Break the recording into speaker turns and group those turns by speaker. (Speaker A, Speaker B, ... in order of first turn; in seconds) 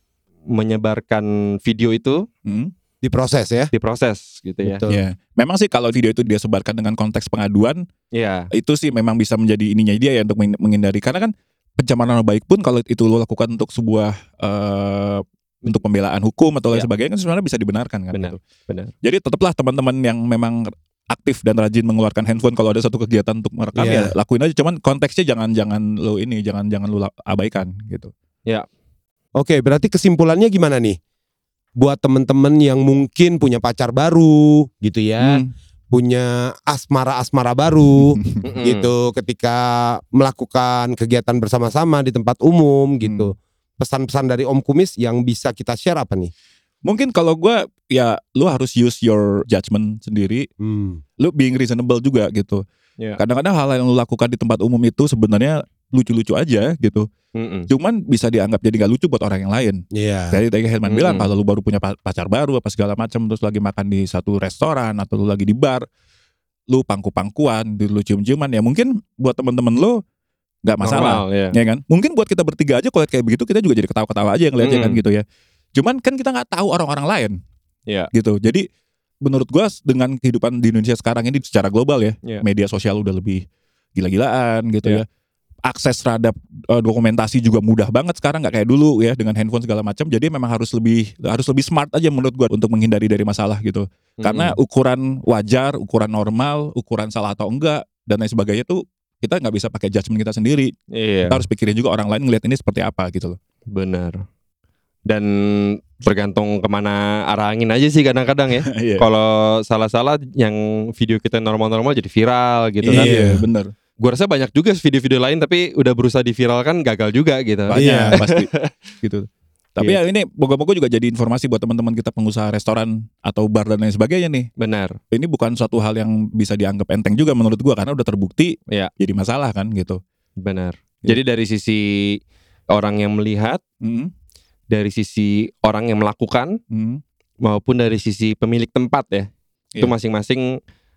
Speaker A: 0.5-2.3, 3.7-4.8, 8.1-8.5, 18.1-18.9, 38.4-38.9, 57.4-57.7, 60.9-61.3, 70.8-71.5, 74.6-75.0, 94.2-94.6, 100.9-101.4, 103.7-104.2, 105.1-113.1, 114.0-118.7, 124.6-125.0, 130.4-132.2, 132.7-133.6, 134.7-136.6, 137.4-140.5
Speaker B: 2.5-2.7, 4.9-7.8, 8.5-18.4, 19.0-28.1, 35.2-35.5, 38.0-38.4, 46.8-50.5, 51.2-52.6, 53.2-57.1, 57.7-65.8, 66.7-70.0, 70.6-75.2, 75.8-77.4, 78.1-78.7, 79.2-83.4, 84.0-85.0, 85.6-100.7, 101.3-103.4, 108.7-109.0, 112.8-113.7, 117.7-124.5, 125.1-130.0, 133.8-134.1, 136.7-137.0
Speaker C: 3.0-3.7, 4.6-5.0, 23.7-24.1, 29.4-31.0, 31.8-46.3, 50.6-51.0, 59.9-60.4, 112.9-113.4, 117.7-118.2